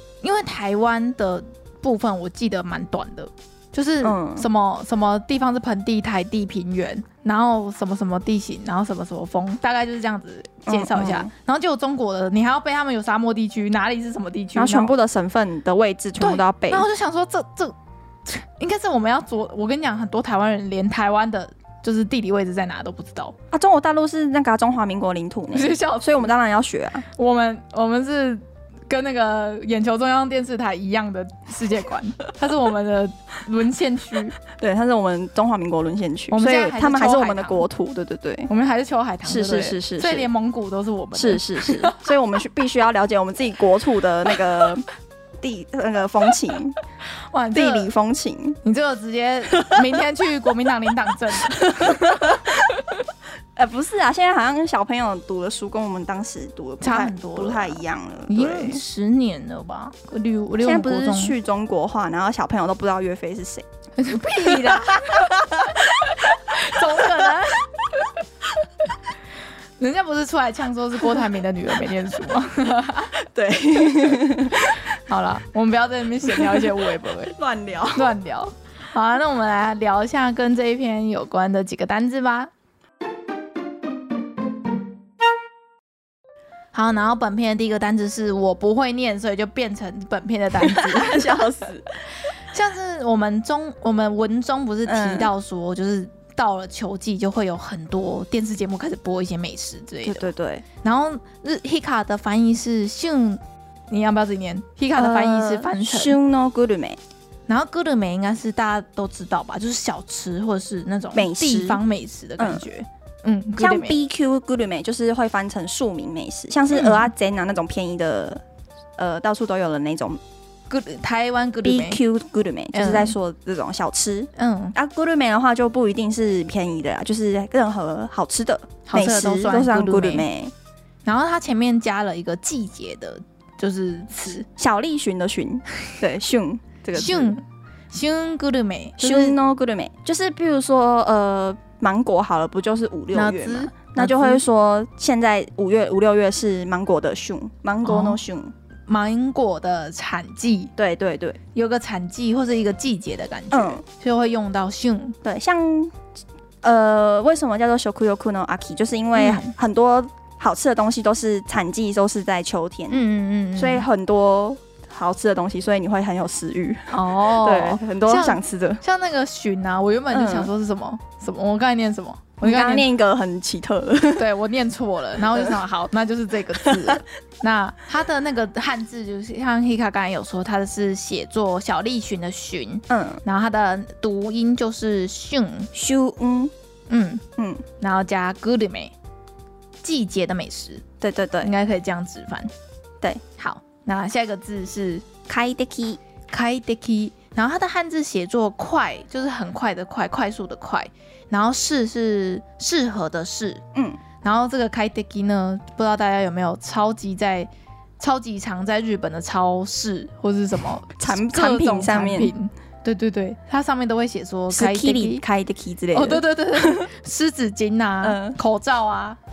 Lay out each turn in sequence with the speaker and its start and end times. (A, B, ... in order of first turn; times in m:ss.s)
0:00.2-0:14.9 A
0:04.0-0:04.4 B
0:10.6-0:11.3 B
0:14.5-0:16.8 B
0:16.2-0:23.3 A
0:23.5-0:27.0 B
0:25.5-0:26.3 A
0:27.1-0:34.4 A
0:34.5-0:38.5 B
0:36.3-0:37.6 A
0:38.5-0:42.0 A
0:39.2-0:40.3 B
0:41.1-0:44.8 B
0:45.4-0:46.8 B
0:47.3-0:47.9 A
0:47.5-0:48.6 B
0:48.6-0:52.3 A
0:49.6-0:49.8 B
0:51.6-0:52.6 B
0:53.5-0:58.8 B
0:56.8-1:01.3 A
1:00.6-1:03.6 B
1:04.0-1:05.4 A
1:04.4-1:07.3 B
1:06.3-1:07.7 A
1:09.8-1:13.1 A
1:13.2-1:14.8 B
1:14.9-1:17.3 A
1:16.2-1:18.1 B
1:17.9-1:22.5 A
1:26.7-1:31.4 A
1:30.6-1:31.9 B
1:32.5-1:40.3 A
1:34.8-1:35.3 B
1:40.0-1:40.6 B
1:40.8-1:46.2 A
1:44.9-1:47.0 B
1:47.5-1:54.0 A
1:51.1-1:51.8 B
1:52.4-1:52.7 B
1:53.6-1:58.4 B
1:56.7-1:57.1 A
1:59.0-2:00.2 B
2:00.7-2:02.0 A
2:01.6-2:10.5 B
2:02.7-2:03.2 A
2:04.4-2:04.7 A
2:08.9-2:10.3 A
2:11.0-2:14.4 A
2:14.4-2:17.4 B
2:16.9-2:19.4 A
2:19.0-2:28.5 B
2:23.1-2:24.4 A
2:27.8-2:28.2 A
2:28.9-2:30.7 A
2:30.8-2:31.4 B
2:31.5-2:35.2 A
2:33.5-2:33.8 B
2:35.2-2:36.0 B
2:36.6-2:43.0 B
2:39.2-2:39.5 A
2:42.9-2:43.9 A
2:43.6-2:48.8 B
2:46.9-2:52.9 A
2:50.1-2:50.5 B
2:52.4-2:54.3 B
2:54.2-3:05.7 A
2:56.6-2:57.0 B
3:02.9-3:03.2 B
3:05.7-3:06.5 B
3:06.9-3:07.2 A
3:07.4-3:07.6 B
3:07.8-3:08.9 A
3:09.8-3:10.8 A
3:11.0-3:11.5 B
3:11.4-3:12.5 A
3:13.4-3:15.0 A
3:15.3-3:16.0 B
3:16.3-3:23.6 A
3:23.7-3:24.0 B
3:24.2-3:35.2 A
3:31.0-3:32.3 B
3:34.5-3:36.9 B
3:35.9-3:39.2 A
3:38.0-3:38.4 B